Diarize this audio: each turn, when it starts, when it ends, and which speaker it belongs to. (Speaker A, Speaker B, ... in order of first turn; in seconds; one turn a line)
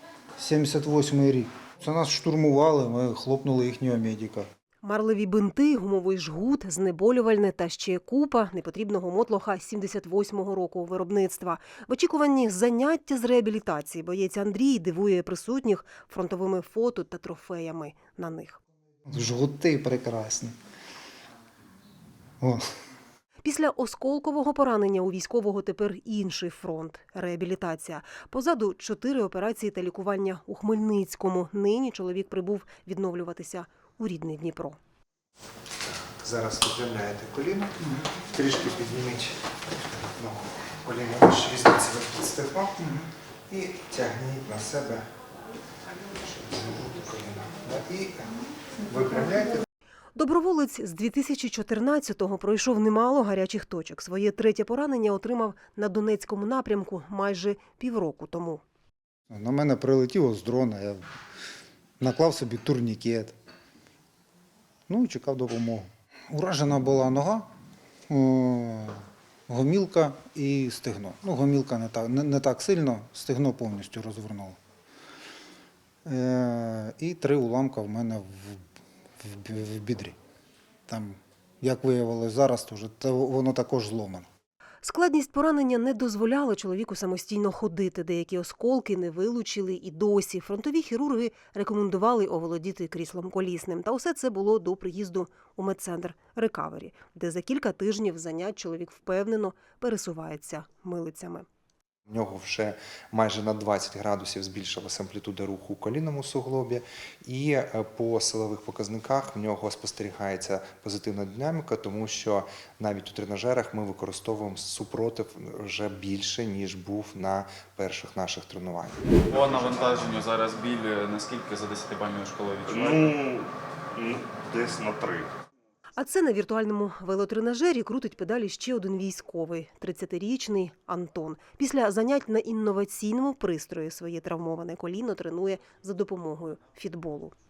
Speaker A: 0.4-4.5
Speaker B: 4.8-18.6
Speaker A: 19.1-20.6
Speaker A: 22.4-22.7
Speaker B: 23.4-34.8
Speaker C: 35.9-39.4
Speaker C: 40.2-42.9
Speaker A: 42.8-43.1
Speaker C: 43.5-45.1
Speaker C: 46.1-49.6
Speaker B: 50.1-58.6
Speaker A: 59.3-61.0
Speaker A: 62.0-63.4
Speaker A: 64.9-67.5
Speaker A: 68.1-74.6
Speaker A: 76.1-78.7
Speaker A: 79.2-80.2
Speaker A: 80.9-84.3
Speaker B: 84.8-101.5
Speaker C: 102.1-119.9
Speaker D: 119.3-120.2
Speaker E: 120.3-123.1
Speaker D: 122.7-125.3
Speaker B: 126.0-137.3